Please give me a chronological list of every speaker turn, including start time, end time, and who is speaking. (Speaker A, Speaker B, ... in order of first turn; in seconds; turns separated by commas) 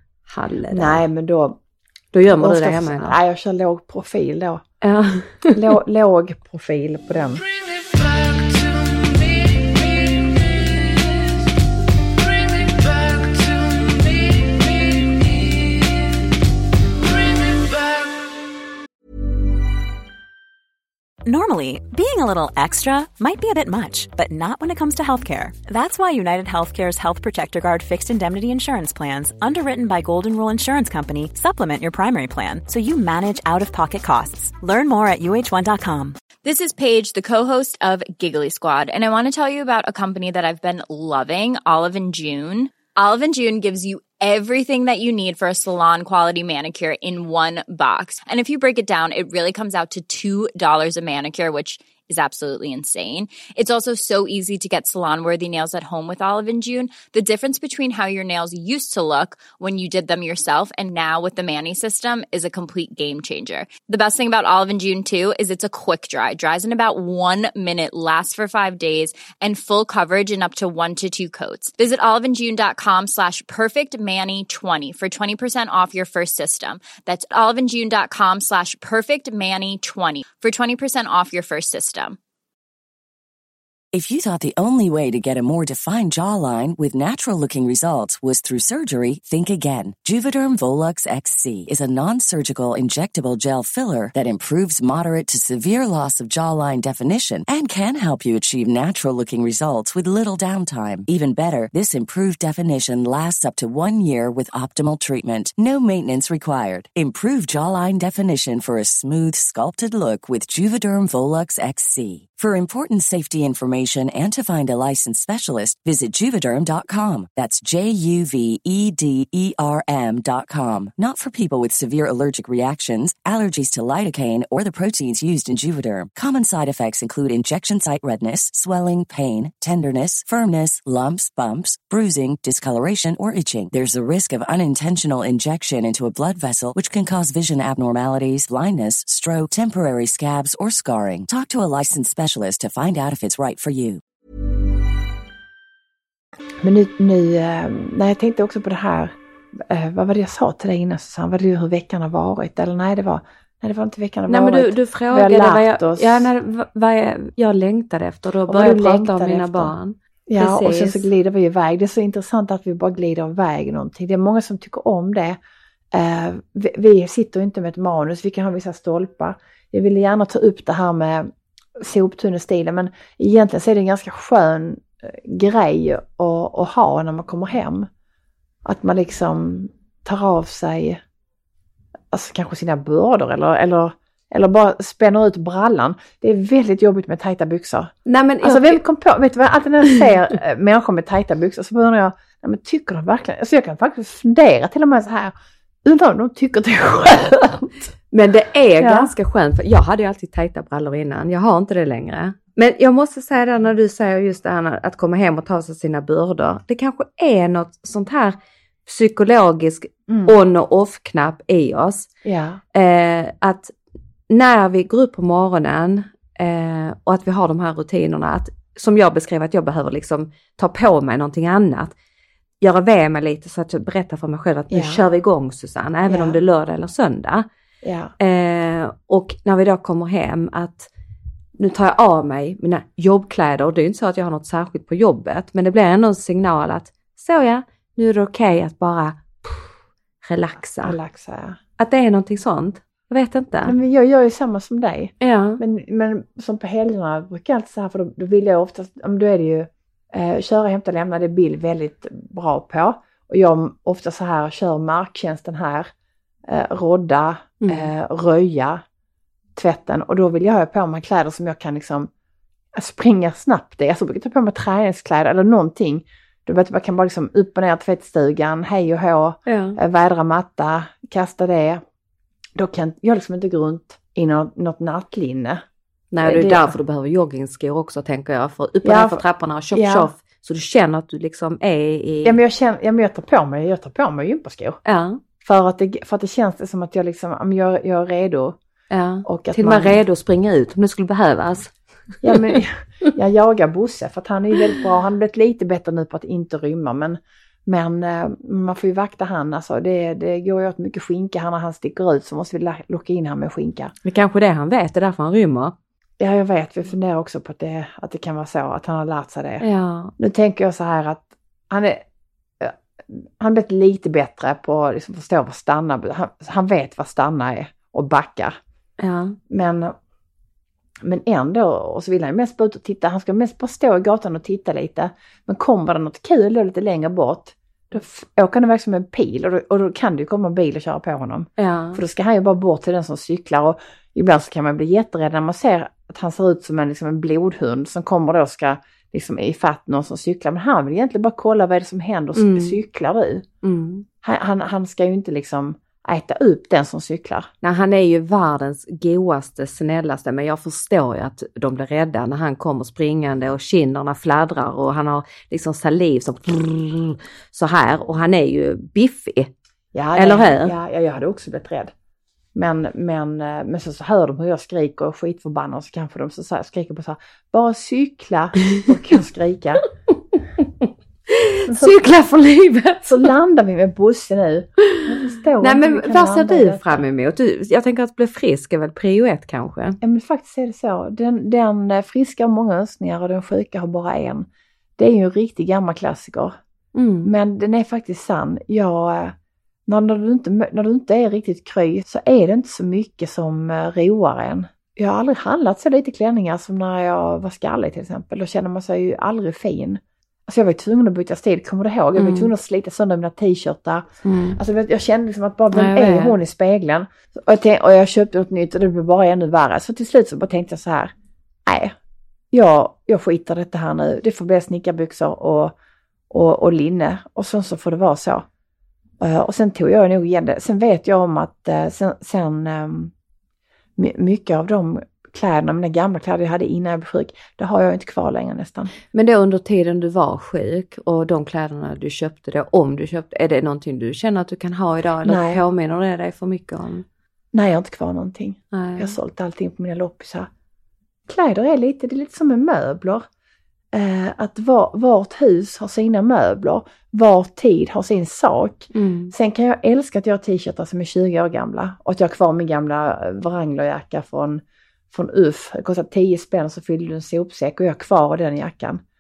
Speaker A: 0.3-1.0, Speaker B: 0.7-1.6, Speaker A: 2.1-3.2, Speaker B: 2.3-4.6, Speaker A: 4.8-5.6, Speaker B: 5.5-7.5, Speaker C: 21.2-36.2, Speaker D: 36.4-82.2, Speaker E: 83.9-144.0, Speaker B: 146.6-156.3, Speaker A: 154.3-161.1, Speaker B: 158.5-159.8, Speaker B: 160.3-165.4, Speaker B: 165.9-177.9, Speaker B: 178.7-181.0, Speaker B: 182.1-197.9, Speaker A: 188.1-188.8, Speaker A: 198.1-212.1, Speaker B: 198.8-199.1, Speaker B: 210.1-210.4, Speaker B: 212.2-212.6, Speaker A: 212.7-213.7, Speaker A: 214.3-221.9, Speaker A: 222.6-227.5, Speaker B: 224.7-225.0, Speaker B: 226.1-226.4, Speaker B: 227.8-228.1, Speaker A: 228.2-230.9, Speaker A: 231.6-241.0, Speaker B: 240.8-241.6, Speaker A: 241.8-243.8, Speaker B: 243.6-255.9, Speaker A: 245.2-245.6, Speaker B: 256.5-258.8, Speaker A: 257.6-257.9, Speaker B: 259.6-262.1, Speaker B: 262.7-271.8, Speaker A: 269.5-269.8, Speaker B: 272.6-275.6, Speaker A: 276.1-282.4, Speaker B: 276.2-276.7, Speaker B: 278.8-280.1, Speaker B: 282.2-284.8, Speaker A: 284.9-285.2, Speaker B: 285.4-288.6, Speaker A: 288.9-291.7, Speaker B: 289.2-290.0, Speaker B: 292.2-303.9, Speaker A: 292.3-292.6, Speaker A: 304.1-305.7, Speaker B: 306.2-309.6, Speaker A: 309.6-310.1, Speaker B: 310.2-312.0, Speaker B: 312.6-318.6, Speaker A: 319.0-319.4, Speaker B: 319.5-319.9, Speaker B: 321.0-343.4, Speaker A: 331.6-332.0, Speaker A: 342.4-342.8, Speaker A: 343.6-344.1, Speaker B: 344.2-347.5, Speaker A: 347.6-359.5, Speaker B: 359.9-361.9, Speaker A: 360.1-360.8, Speaker B: 362.6-369.8, Speaker A: 371.3-373.3, Speaker B: 371.7-372.0, Speaker B: 373.0-377.0, Speaker A: 375.6-380.0, Speaker B: 380.0-384.5, Speaker B: 385.0-386.6, Speaker A: 386.9-387.3, Speaker B: 387.2-389.4, Speaker B: 389.9-411.1, Speaker A: 402.2-402.5, Speaker A: 404.2-404.6, Speaker A: 405.7-406.4, Speaker B: 411.7-411.9, Speaker B: 412.5-415.7, Speaker B: 416.3-418.5, Speaker B: 419.2-423.1, Speaker B: 424.0-428.9, Speaker A: 429.1-437.1, Speaker B: 435.2-435.6, Speaker B: 437.5-440.5, Speaker A: 438.7-439.1, Speaker B: 441.3-443.3, Speaker B: 443.9-459.0, Speaker A: 448.9-449.3